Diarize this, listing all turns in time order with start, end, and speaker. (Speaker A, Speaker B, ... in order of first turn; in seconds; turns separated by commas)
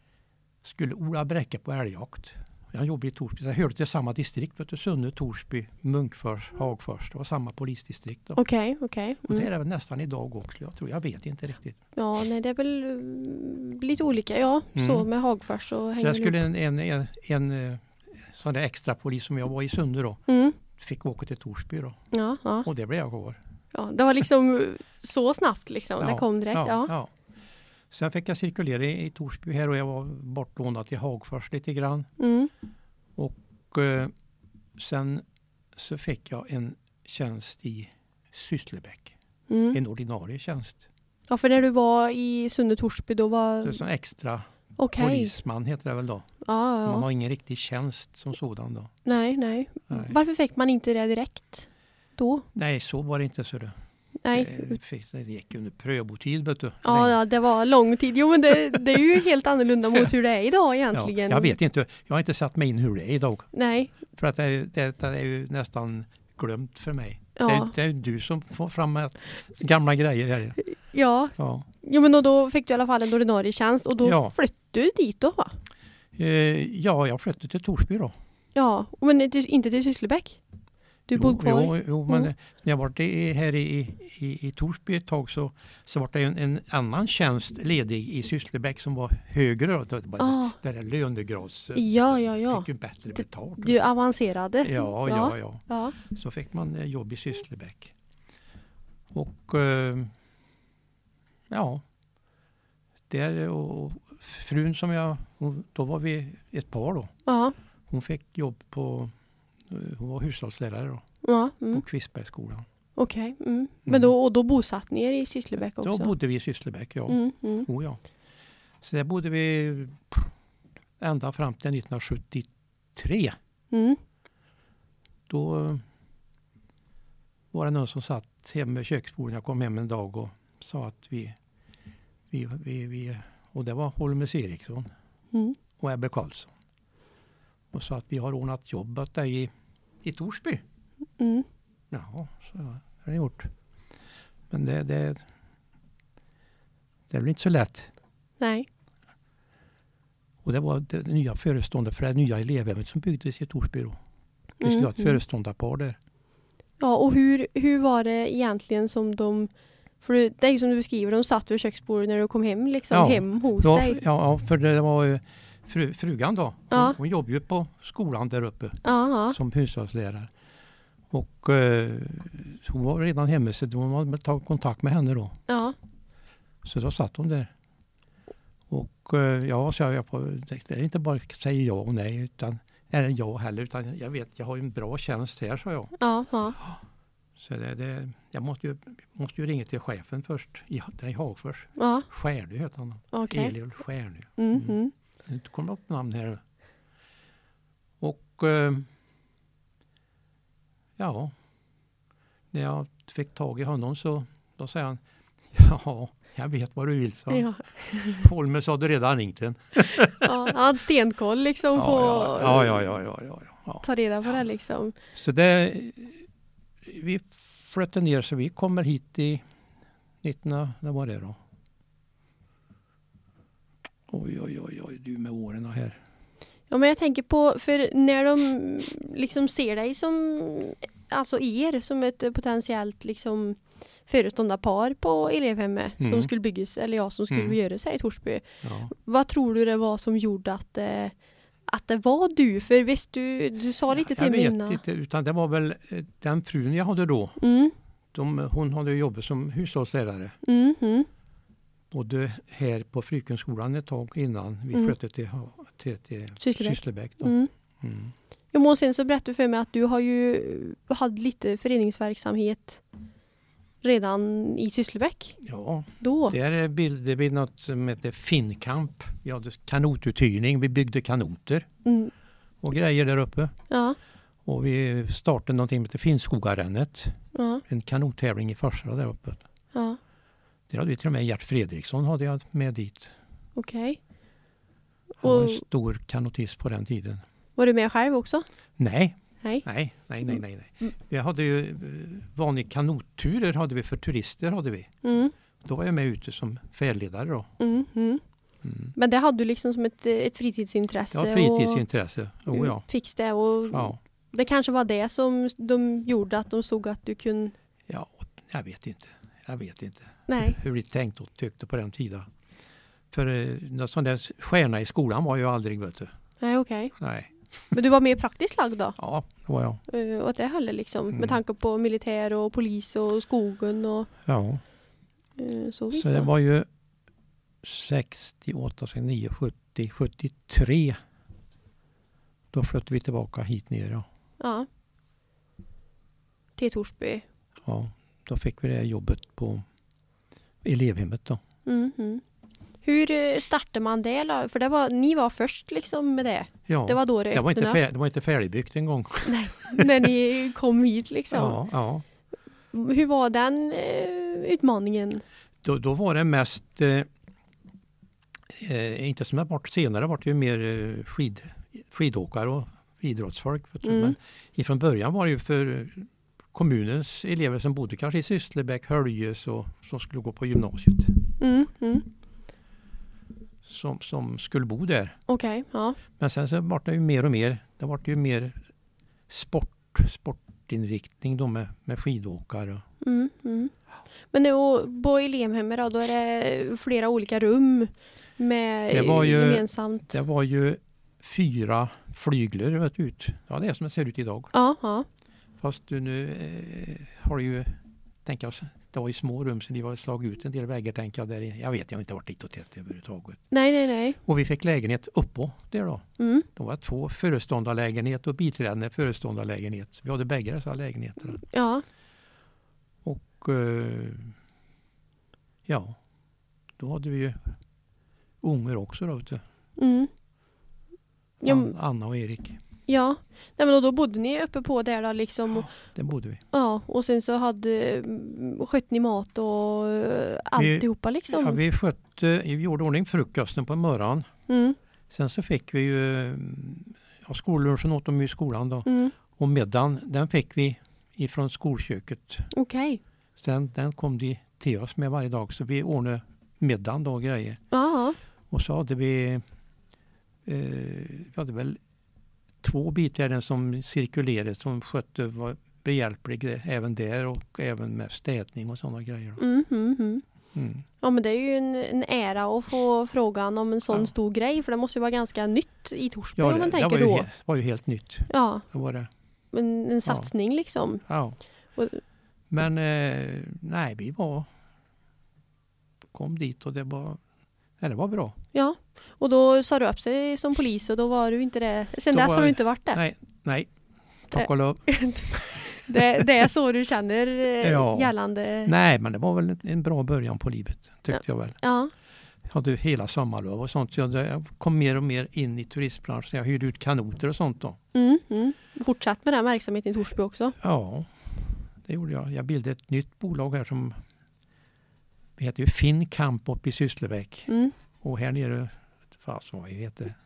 Speaker A: 0.6-8.4, Speaker B: 8.4-9.5, Speaker A: 9.3-11.8, Speaker B: 12.0-16.4, Speaker A: 14.8-15.1, Speaker A: 16.0-20.2, Speaker B: 20.3-20.6, Speaker A: 20.8-22.0, Speaker B: 22.1-22.7, Speaker A: 22.6-23.4, Speaker B: 23.7-26.9, Speaker A: 26.0-27.1, Speaker A: 27.9-32.1, Speaker B: 32.2-32.5, Speaker A: 33.2-34.1, Speaker A: 34.8-35.2, Speaker A: 35.8-39.1, Speaker B: 39.5-39.8, Speaker A: 39.7-40.8, Speaker B: 41.3-43.8, Speaker A: 43.6-44.5, Speaker B: 44.8-45.3, Speaker A: 45.0-46.3, Speaker B: 46.4-47.0, Speaker A: 46.9-48.9, Speaker B: 49.1-52.5, Speaker A: 49.9-50.2, Speaker A: 52.5-53.7, Speaker B: 54.2-54.8, Speaker A: 54.3-57.2, Speaker B: 56.8-61.5, Speaker A: 60.9-63.5, Speaker B: 63.5-63.9, Speaker A: 64.0-70.6, Speaker B: 67.4-67.7, Speaker B: 70.7-75.5, Speaker A: 71.4-71.7, Speaker A: 74.0-74.3, Speaker A: 76.2-78.1, Speaker B: 78.5-80.4, Speaker B: 81.1-82.3, Speaker A: 81.1-93.8, Speaker B: 90.2-90.6, Speaker B: 91.8-92.7, Speaker B: 93.6-96.0, Speaker A: 94.6-97.9, Speaker A: 99.1-100.1, Speaker A: 101.5-101.8, Speaker A: 103.1-107.1, Speaker B: 107.3-107.5, Speaker A: 107.9-109.1, Speaker A: 109.7-111.0, Speaker B: 111.2-111.8, Speaker A: 111.7-112.7, Speaker B: 113.0-116.1, Speaker A: 113.9-114.1, Speaker A: 115.8-118.0, Speaker B: 117.1-117.7, Speaker A: 118.8-120.3, Speaker A: 121.0-123.4, Speaker B: 123.7-124.0, Speaker A: 125.3-125.8, Speaker A: 127.5-131.4, Speaker A: 132.3-134.9, Speaker A: 135.8-136.5, Speaker A: 137.7-139.5, Speaker A: 140.0-140.6, Speaker B: 141.2-141.5, Speaker A: 141.9-143.5, Speaker A: 144.5-145.3, Speaker A: 147.1-147.9, Speaker B: 148.4-148.7, Speaker A: 150.4-154.0, Speaker A: 154.6-156.0, Speaker B: 154.6-155.2, Speaker B: 156.8-159.5, Speaker B: 160.0-164.0, Speaker A: 162.9-170.3, Speaker B: 166.7-167.0, Speaker B: 168.8-169.4, Speaker A: 171.1-175.4, Speaker B: 175.5-175.8, Speaker A: 176.6-177.5, Speaker A: 178.7-185.9, Speaker B: 186.0-186.6, Speaker A: 187.4-196.4, Speaker B: 191.8-192.1, Speaker B: 193.1-193.6, Speaker B: 194.4-194.9, Speaker A: 198.0-198.9, Speaker A: 201.0-201.3, Speaker A: 202.5-205.0, Speaker A: 205.5-210.5, Speaker B: 207.3-208.3, Speaker B: 210.2-212.9, Speaker A: 211.8-213.8, Speaker B: 213.8-214.9, Speaker A: 215.1-216.2, Speaker A: 216.8-219.4, Speaker A: 220.2-221.4, Speaker A: 224.1-226.0, Speaker B: 226.7-241.2, Speaker A: 236.0-236.3, Speaker A: 237.3-237.6, Speaker A: 238.6-238.9, Speaker B: 241.7-244.8, Speaker A: 243.9-247.4, Speaker B: 247.4-247.8, Speaker A: 248.1-250.3, Speaker B: 250.4-251.1, Speaker A: 251.9-258.1, Speaker B: 256.4-257.5, Speaker B: 258.5-262.8, Speaker B: 263.8-265.4, Speaker A: 265.4-271.7, Speaker B: 266.0-266.4, Speaker B: 271.9-272.1, Speaker A: 272.6-273.5, Speaker B: 273.7-274.0, Speaker A: 274.4-279.4, Speaker B: 277.4-277.6, Speaker B: 279.7-280.0, Speaker A: 280.7-283.1, Speaker B: 283.6-284.0, Speaker A: 285.2-287.2, Speaker B: 285.2-285.6, Speaker B: 287.6-288.4, Speaker A: 288.8-294.9, Speaker B: 295.0-295.3, Speaker A: 295.6-297.5, Speaker B: 297.6-298.2, Speaker A: 298.6-298.9, Speaker B: 298.9-301.8, Speaker A: 301.1-302.8, Speaker B: 302.5-307.6, Speaker A: 303.7-304.0, Speaker A: 307.9-312.3, Speaker B: 310.3-310.6, Speaker A: 313.1-316.1, Speaker B: 316.4-316.9, Speaker A: 317.0-317.4, Speaker B: 317.7-319.0, Speaker A: 319.0-319.8, Speaker B: 319.9-324.1, Speaker A: 321.1-321.4, Speaker A: 324.3-324.6, Speaker B: 325.4-326.3, Speaker A: 325.9-326.7, Speaker A: 327.6-331.0, Speaker A: 332.5-334.1, Speaker B: 334.4-334.7, Speaker B: 336.6-337.2, Speaker A: 337.6-339.6, Speaker A: 340.6-341.4, Speaker B: 341.7-342.2, Speaker B: 342.8-347.8, Speaker A: 346.7-350.1, Speaker B: 349.3-351.6, Speaker A: 351.3-352.0, Speaker B: 352.7-355.2, Speaker A: 355.6-357.1, Speaker A: 358.5-371.3, Speaker B: 363.8-364.1, Speaker B: 371.4-372.1, Speaker A: 373.6-375.2, Speaker B: 375.3-376.0, Speaker A: 376.2-378.6, Speaker A: 379.3-382.8, Speaker B: 383.0-383.7, Speaker B: 384.3-390.2, Speaker A: 388.9-394.5, Speaker B: 394.5-395.1, Speaker A: 395.6-403.4, Speaker B: 403.5-404.2, Speaker A: 404.2-411.4, Speaker B: 406.2-406.5, Speaker B: 411.5-411.8, Speaker A: 413.0-414.3, Speaker A: 415.7-416.0, Speaker A: 416.8-417.5, Speaker A: 418.4-419.4, Speaker B: 419.8-420.1, Speaker B: 421.4-421.7, Speaker A: 421.4-422.6, Speaker B: 422.9-425.7, Speaker A: 425.6-426.4, Speaker B: 426.5-431.6, Speaker A: 430.6-434.3, Speaker B: 434.5-434.8, Speaker A: 435.1-442.5, Speaker B: 438.9-439.2, Speaker B: 442.5-443.0, Speaker A: 443.4-447.6, Speaker B: 447.7-448.2, Speaker A: 448.5-449.4, Speaker A: 450.5-451.8, Speaker A: 452.6-459.4, Speaker B: 459.4-460.2, Speaker A: 460.6-460.8, Speaker B: 461.0-467.3, Speaker A: 466.4-469.1, Speaker B: 468.3-468.7, Speaker B: 469.5-471.1, Speaker A: 470.1-470.3, Speaker A: 471.1-471.4, Speaker B: 471.8-472.0, Speaker A: 472.5-474.5, Speaker A: 476.1-477.2, Speaker A: 477.8-478.4, Speaker B: 478.5-483.0, Speaker A: 482.1-483.7, Speaker A: 484.3-486.2, Speaker B: 484.4-488.7, Speaker A: 487.6-488.1, Speaker A: 488.6-491.6, Speaker B: 491.6-491.9, Speaker A: 492.5-497.8, Speaker B: 497.9-500.6, Speaker A: 500.6-504.0, Speaker A: 505.4-507.5, Speaker B: 507.5-507.7, Speaker A: 508.0-510.2